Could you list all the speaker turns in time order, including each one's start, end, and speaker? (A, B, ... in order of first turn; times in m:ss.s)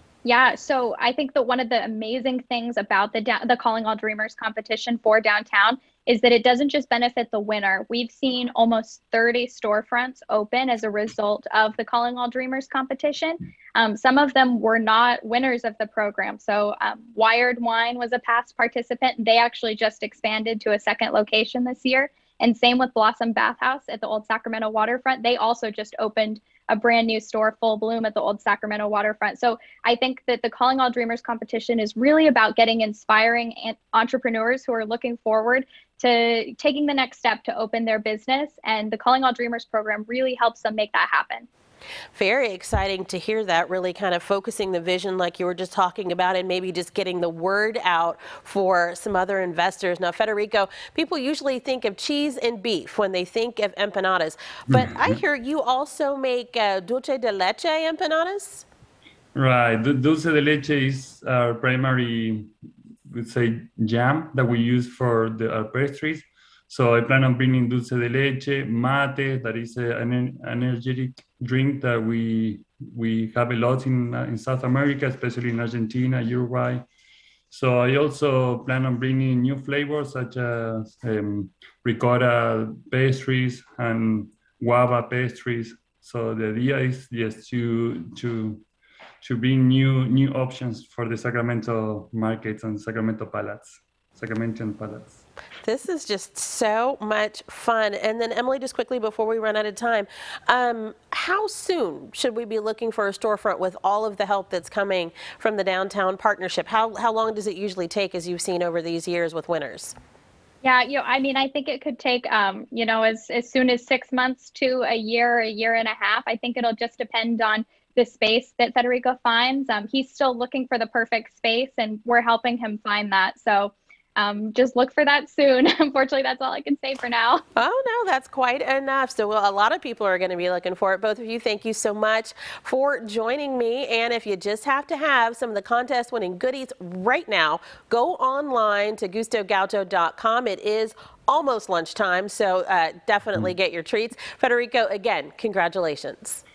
0:00.2-0:41.5 A
0:42.1-0:58.6 B
0:54.7-0:55.2 C
0:59.4-1:02.5 C
1:03.1-1:16.8 C
1:17.5-1:28.6 C
1:29.2-1:35.2 C
1:35.6-1:50.0 B
1:50.6-2:07.4 A
2:07.6-2:26.4 B